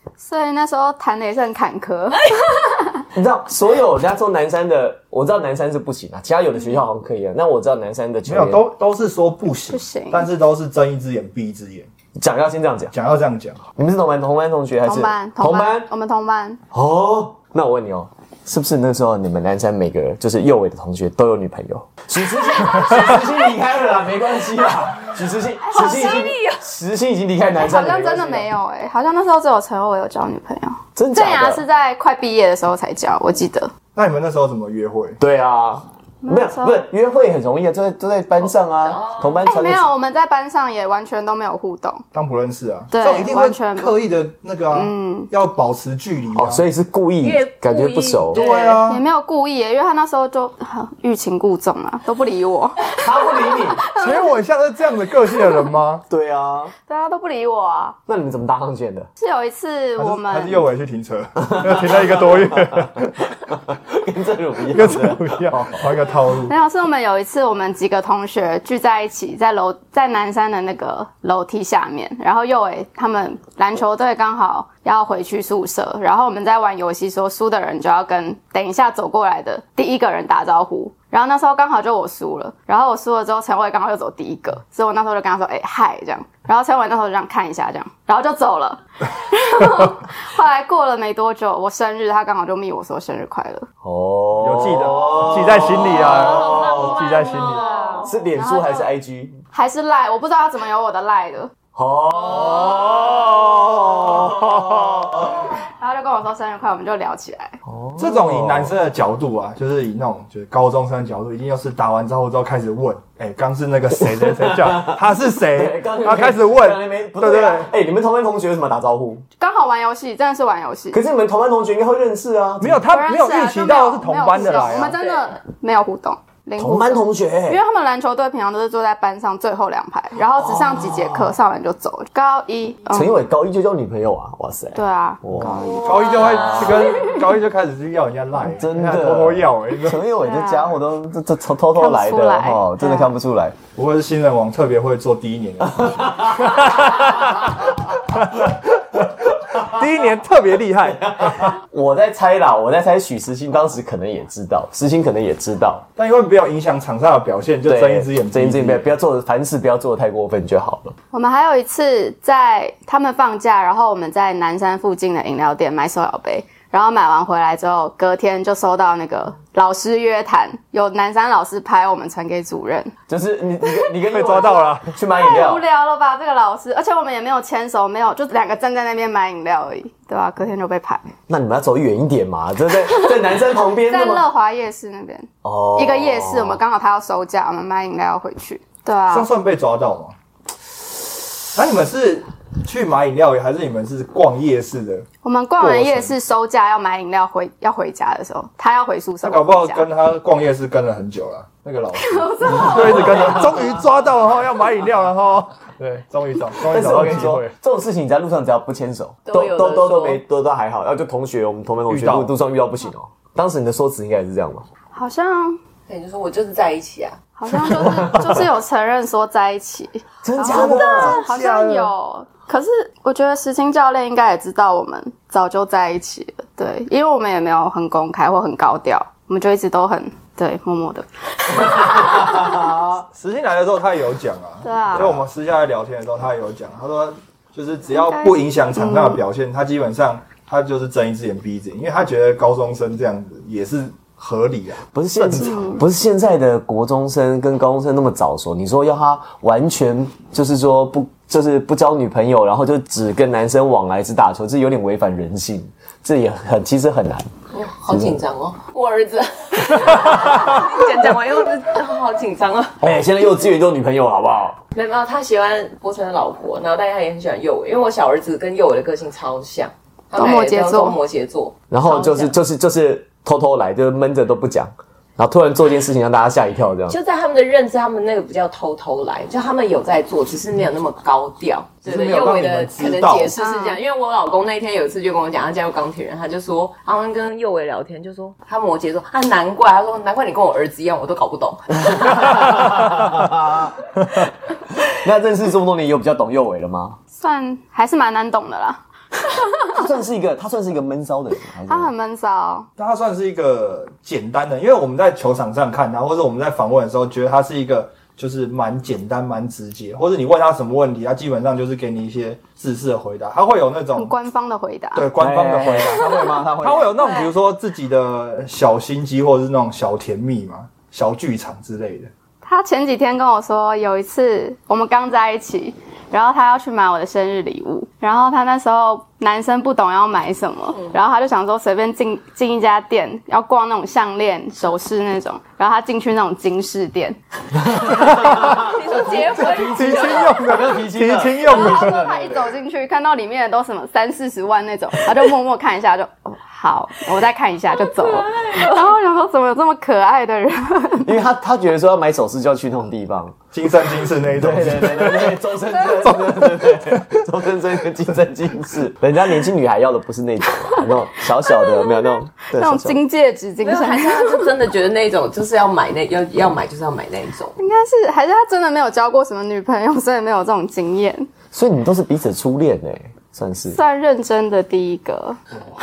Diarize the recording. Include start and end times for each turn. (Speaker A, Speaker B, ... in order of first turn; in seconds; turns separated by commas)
Speaker A: 0.2-3.0, Speaker B: 3.1-8.6, Speaker C: 8.3-11.9, Speaker A: 9.7-10.3, Speaker B: 12.2-12.9, Speaker C: 12.9-13.6, Speaker B: 13.8-15.9, Speaker A: 14.8-16.6, Speaker B: 16.7-28.5, Speaker D: 22.3-23.5, Speaker D: 25.7-26.7, Speaker A: 25.7-26.1, Speaker A: 27.6-33.7, Speaker B: 31.0-31.6, Speaker C: 34.0-35.2, Speaker B: 35.2-39.9, Speaker A: 36.2-36.9, Speaker D: 38.4-39.5, Speaker A: 39.5-42.0, Speaker C: 42.1-46.6, Speaker A: 42.9-43.9, Speaker A: 44.7-45.3, Speaker B: 46.4-48.4, Speaker D: 47.2-48.8, Speaker C: 48.3-49.0, Speaker A: 48.8-54.4, Speaker B: 53.0-53.8, Speaker C: 54.0-56.0, Speaker B: 56.1-56.7, Speaker A: 56.9-58.0, Speaker B: 58.1-59.1, Speaker A: 59.2-60.6, Speaker C: 60.0-63.2, Speaker B: 61.4-66.1, Speaker C: 64.7-66.5, Speaker A: 66.5-93.7, Speaker B: 93.8-97.0, Speaker C: 94.4-97.7, Speaker D: 96.0-98.1, Speaker A: 96.0-98.9, Speaker B: 98.0-99.4, Speaker A: 99.5-101.5, Speaker B: 101.8-105.5, Speaker C: 103.8-105.3, Speaker A: 105.5-107.6, Speaker B: 107.7-108.7, Speaker C: 108.0-117.7, Speaker B: 114.2-119.2, Speaker A: 119.4-121.0, Speaker B: 120.9-122.8, Speaker C: 122.6-125.0, Speaker A: 122.9-133.2, Speaker D: 124.6-125.4, Speaker B: 126.6-127.6, Speaker B: 130.4-131.2, Speaker B: 132.9-136.9, Speaker A: 134.8-137.2, Speaker C: 135.4-140.0, Speaker D: 136.2-136.7, Speaker B: 138.5-143.6, Speaker A: 140.2-140.8, Speaker A: 141.7-143.1, Speaker C: 143.8-151.6, Speaker B: 145.8-147.4, Speaker B: 151.0-155.9, Speaker C: 156.0-158.9, Speaker B: 157.7-160.9, Speaker A: 161.1-172.9, Speaker B: 173.1-175.7, Speaker C: 174.1-174.9, Speaker A: 175.1-181.1, Speaker B: 181.3-184.3, Speaker A: 182.8-183.2, Speaker A: 183.9-189.3, Speaker B: 185.4-186.6, Speaker C: 189.1-190.2, Speaker C: 191.5-195.1, Speaker A: 195.2-199.9, Speaker C: 195.6-196.1, Speaker C: 199.2-207.5, Speaker A: 202.0-203.7, Speaker B: 202.6-203.6, Speaker B: 206.6-214.7, Speaker D: 209.3-210.2, Speaker C: 211.9-212.3, Speaker A: 214.9-215.6, Speaker D: 215.9-217.2, Speaker A: 217.4-232.8, Speaker B: 217.6-218.4, Speaker B: 220.2-221.2, Speaker C: 220.4-221.9, Speaker C: 233.1-245.8, Speaker A: 234.6-235.2, Speaker B: 234.9-235.2, Speaker A: 237.9-239.2, Speaker B: 244.9-257.3, Speaker A: 245.4-245.8, Speaker D: 257.5-262.8, Speaker B: 257.9-258.2, Speaker B: 262.8-264.6, Speaker D: 264.7-272.4, Speaker A: 270.2-271.0, Speaker B: 271.7-277.0, Speaker D: 276.9-292.6, Speaker C: 281.9-283.4, Speaker A: 283.3-283.8, Speaker B: 291.8-294.2, Speaker B: 294.9-297.0, Speaker A: 297.1-299.9, Speaker B: 299.7-301.9, Speaker A: 301.7-302.7, Speaker C: 302.8-314.1, Speaker A: 313.9-315.1, Speaker C: 314.9-322.1, Speaker B: 315.2-317.0, Speaker A: 322.4-337.2, Speaker B: 337.6-342.5, Speaker C: 338.0-338.3, Speaker D: 338.2-340.5, Speaker C: 339.4-342.0, Speaker A: 341.4-351.1, Speaker D: 347.9-348.9, Speaker B: 351.0-353.4, Speaker C: 353.5-355.4, Speaker B: 354.3-363.0, Speaker C: 356.1-357.1, Speaker A: 361.5-364.5, Speaker D: 363.6-367.6, Speaker A: 367.6-371.3, Speaker B: 371.5-373.8, Speaker A: 373.7-375.4